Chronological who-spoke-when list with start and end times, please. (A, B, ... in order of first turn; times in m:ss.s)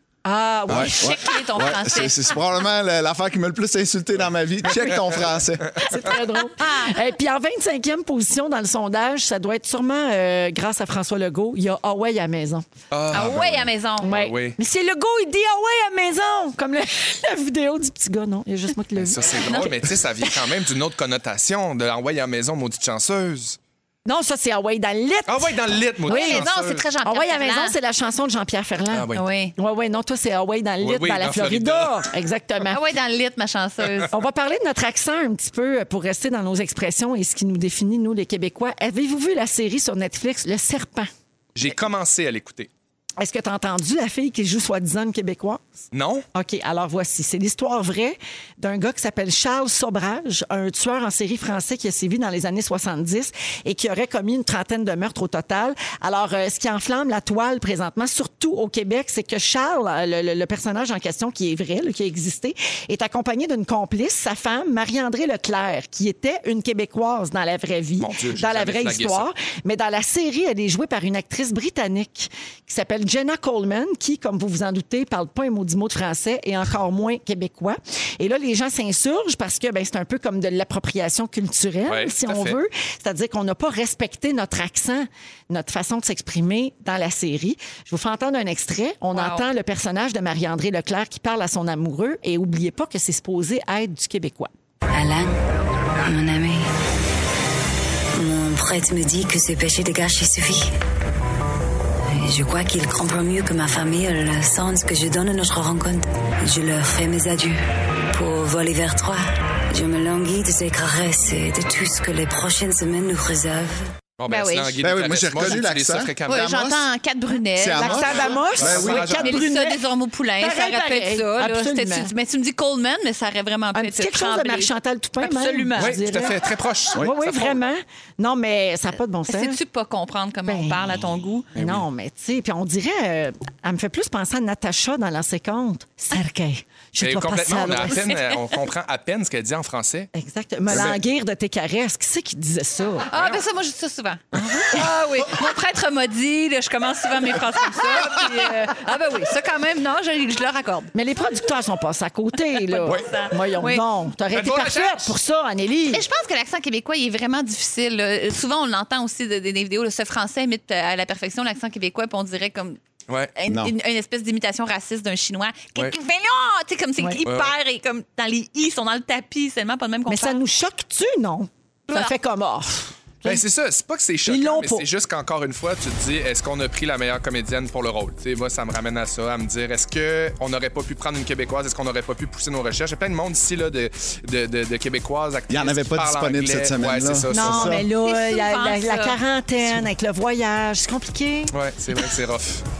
0:00.2-0:01.2 A
0:00.7-0:02.3 B
0:00.7-0:05.8 C
0:05.8-0:12.6 A
0:06.6-0:06.9 B
0:12.9-0:14.6 D
0:13.1-0:14.1 B
0:14.0-0:20.3 A
0:19.0-0:23.6 D
0:19.5-0:19.7 B
0:24.0-0:26.5 A
0:25.2-0:26.8 D
0:26.1-0:27.7 B
0:27.0-0:32.8 A
0:28.9-0:29.2 D
0:29.1-0:29.5 B
0:30.8-0:32.0 D
0:32.7-0:34.1 B
0:34.1-0:41.1 A
0:41.5-0:42.7 D
0:43.2-0:45.6 A
0:45.9-0:46.2 D
0:46.3-1:34.5 A
1:08.0-1:09.3 D
1:21.9-1:22.6 D
1:29.1-1:29.4 B
1:34.9-1:35.4 E
1:36.0-1:36.7 E
1:38.1-1:40.7 E
1:42.1-1:53.9 E
1:54.2-1:56.5 D
1:54.3-1:54.7 B
1:54.8-1:56.9 C
1:56.3-2:06.0 B
1:57.6-1:59.2 C
1:57.7-1:59.8 A
1:57.8-1:59.4 D
2:00.4-2:02.1 A
2:03.7-2:06.4 A
2:05.8-2:07.6 D
2:07.0-2:09.6 A
2:09.3-2:11.5 B
2:10.4-2:10.9 A
2:11.5-2:11.8 D
2:11.6-2:18.0 A
2:17.0-2:20.1 D
2:17.8-2:18.4 B
2:20.1-2:23.1 A
2:20.7-2:21.0 C
2:20.7-2:21.0 D
2:23.1-2:30.9 B
2:24.3-2:24.8 A
2:30.9-2:36.0 A
2:32.6-2:33.8 B
2:34.3-2:35.1 D
2:35.9-2:42.8 B
2:43.4-2:50.4 B
2:43.5-2:43.7 C
2:47.2-2:47.5 D
2:50.1-2:53.4 A
2:51.9-2:52.1 B
2:53.2-3:07.8 D
2:54.2-2:54.9 A
3:05.5-3:07.8 C
3:07.3-3:11.5 A
3:07.9-3:09.2 B
3:11.5-3:12.6 D